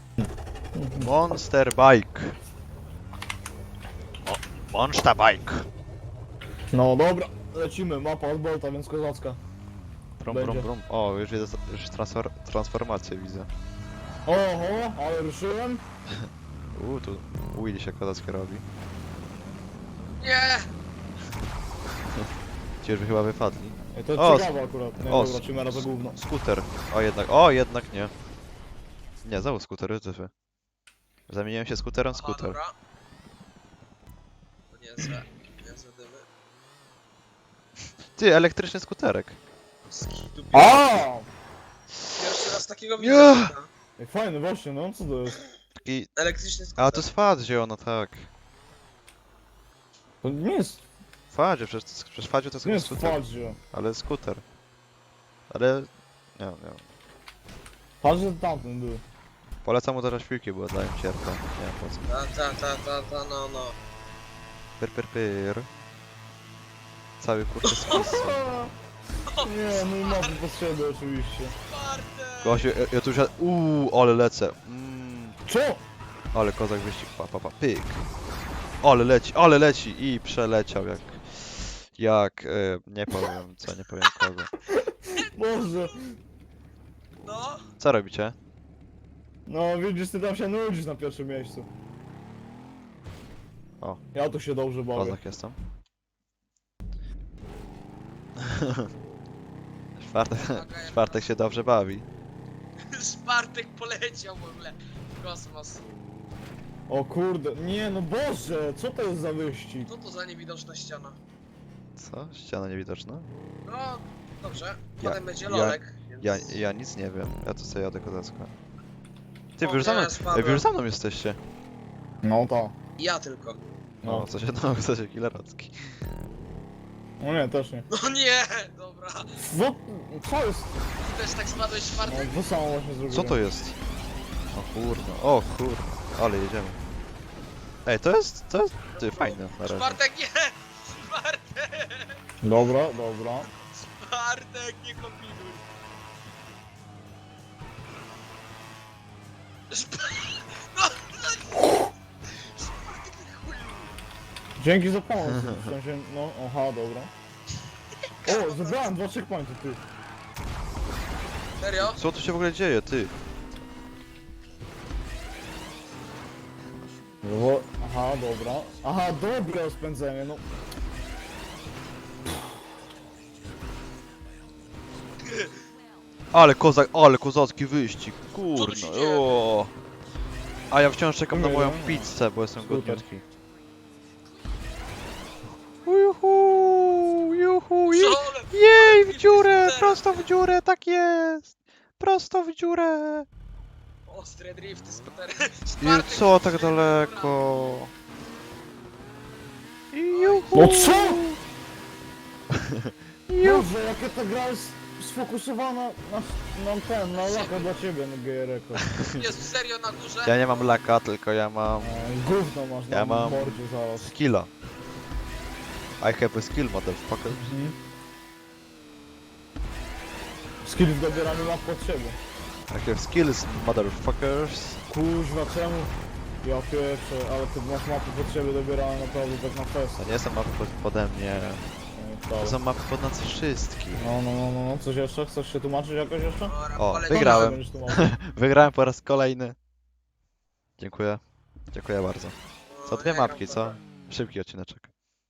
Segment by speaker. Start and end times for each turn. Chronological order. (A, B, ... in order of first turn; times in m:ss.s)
0:00.7-0:01.1 A
0:01.0-0:02.4 B
0:04.2-0:05.7 B
0:06.7-0:09.4 A
0:10.2-0:13.5 B
0:10.3-0:10.7 A
0:14.2-0:15.8 A
0:16.7-0:18.6 B
0:20.2-0:20.7 C
0:22.8-0:24.5 B
0:23.9-0:26.2 A
0:25.0-0:28.1 B
0:29.2-0:30.3 B
0:31.3-0:32.6 B
0:32.1-0:32.7 C
0:34.7-0:36.2 C
0:38.1-0:39.4 B
0:39.9-0:41.1 C
0:40.5-0:41.3 A
0:42.1-0:43.7 C
0:43.0-0:43.5 B
0:44.0-0:45.4 A
0:45.8-0:46.1 B
0:46.2-0:47.0 C
0:46.8-0:48.3 B
0:50.2-0:50.8 A
0:51.3-0:54.4 B
0:52.6-0:53.6 A
0:55.5-0:56.8 B
0:58.0-0:59.0 A
0:59.6-1:02.0 B
1:02.0-1:03.7 C
1:04.8-1:05.7 B
1:07.2-1:08.4 B
1:07.6-1:08.0 C
1:07.9-1:08.7 A
1:09.2-1:10.4 C
1:09.4-1:11.6 A
1:11.7-1:12.7 C
1:12.4-1:15.4 B
1:15.4-1:15.8 A
1:16.3-1:18.1 B
1:18.8-1:24.5 B
1:24.7-1:26.2 A
1:27.2-1:27.6 C
1:27.8-1:28.4 B
1:29.5-1:31.7 A
1:34.1-1:35.2 A
1:34.9-1:35.6 B
1:38.4-1:38.9 B
1:40.0-1:42.1 B
1:40.3-1:41.5 C
1:42.9-1:45.8 C
1:46.9-1:49.9 A
1:49.8-1:51.2 C
1:52.0-1:53.3 B
1:53.6-1:56.6 C
1:55.0-1:58.5 B
1:59.6-2:01.4 B
1:59.6-2:00.7 C
2:02.2-2:02.8 A
2:03.0-2:03.6 C
2:04.0-2:04.3 A
2:04.0-2:05.7 B
2:07.2-2:07.9 A
2:07.9-2:09.3 C
2:09.4-2:10.8 A
2:11.0-2:12.4 C
2:12.0-2:13.4 A
2:13.1-2:13.8 B
2:14.5-2:16.8 B
2:17.8-2:20.0 B
2:18.9-2:22.2 C
2:22.4-2:23.5 A
2:23.4-2:25.6 C
2:29.7-2:33.9 C
2:34.6-2:37.1 A
2:35.3-2:35.6 B
2:38.2-2:38.9 C
2:38.2-2:39.8 A
2:41.6-2:42.0 C
2:41.8-2:43.1 B
2:47.2-2:50.4 A
2:56.3-2:59.7 B
2:58.5-2:59.2 C
3:00.7-3:03.2 B
3:01.3-3:03.0 A
3:05.8-3:13.2 B
3:07.9-3:10.2 C
3:14.1-3:17.4 C
3:15.8-3:17.9 B
3:19.9-3:21.4 B
3:20.1-3:20.6 C
3:20.5-3:21.3 A
3:22.5-3:23.7 B
3:23.4-3:28.8 A
3:27.1-3:27.8 C
3:29.1-3:30.7 C
3:30.2-3:32.1 B
3:31.8-3:34.1 A
3:32.9-3:34.5 B
3:36.0-3:37.5 B
3:37.3-3:37.8 A
3:40.6-3:42.2 A
3:41.0-3:41.5 C
3:42.7-3:44.8 B
3:44.9-3:50.0 A
3:50.0-3:51.7 B
3:52.0-3:52.6 A
3:52.4-3:54.1 B
3:53.9-3:56.5 A
3:56.4-3:58.0 C
3:56.8-3:59.6 B
3:57.1-3:58.0 A
4:00.8-4:04.9 B
4:02.7-4:03.8 C